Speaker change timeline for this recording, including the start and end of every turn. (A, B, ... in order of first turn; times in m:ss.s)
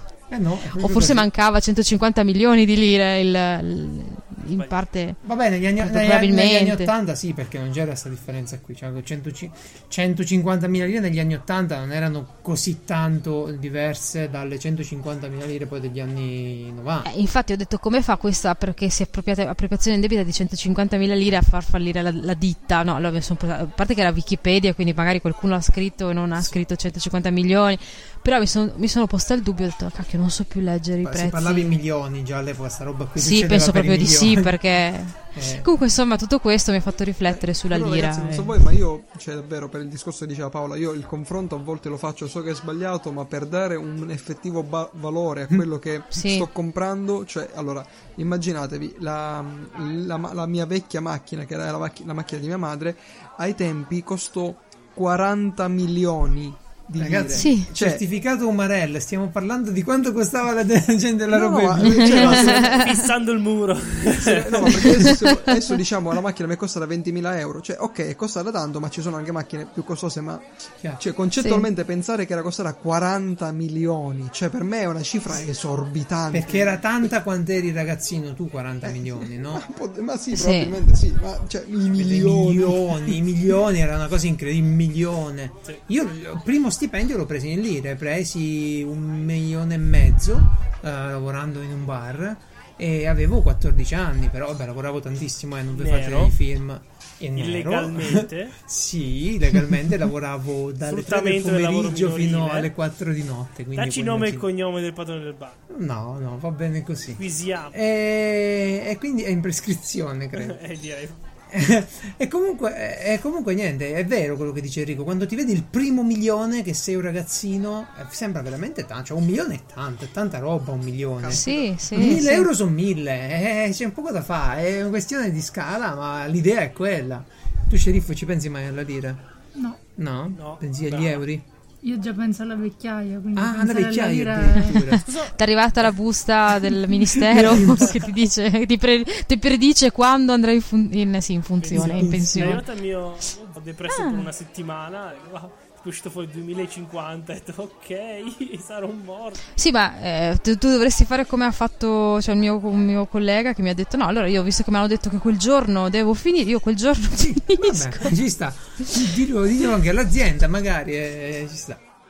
0:00.3-0:01.3 A
0:00.7-0:05.2 B
0:05.2-0:17.1 A
0:05.8-0:06.9 B
0:17.0-0:31.8 B
0:31.0-0:34.6 A
0:33.2-0:38.6 B
0:35.3-0:35.7 A
0:37.2-0:58.0 C
0:46.1-0:46.4 B
0:56.9-1:02.6 A
0:57.4-0:57.7 B
1:01.3-1:02.8 C
1:01.9-1:03.0 B
1:02.6-1:04.8 D
1:04.1-1:17.1 C
1:04.8-1:05.4 B
1:11.4-1:11.7 B
1:16.3-1:19.6 A
1:18.8-1:23.2 C
1:20.3-1:20.8 B
1:21.9-1:44.5 A
1:35.7-1:36.4 D
1:37.3-1:38.6 D
1:40.8-1:42.7 D
1:43.7-1:45.6 D
1:45.7-1:50.6 A
1:47.2-1:47.8 D
1:50.3-1:51.2 D
1:51.5-2:09.2 A
2:01.2-2:02.2 C
2:01.3-2:02.5 B
2:10.0-2:11.4 A
2:10.3-2:11.2 D
2:11.8-2:14.8 E
2:13.3-2:15.0 A
2:14.8-2:22.6 B
2:15.0-2:15.4 D
2:17.1-2:17.9 A
2:21.6-2:29.4 D
2:21.7-2:22.6 A
2:23.9-2:24.3 B
2:29.6-2:38.2 B
2:37.1-2:41.8 A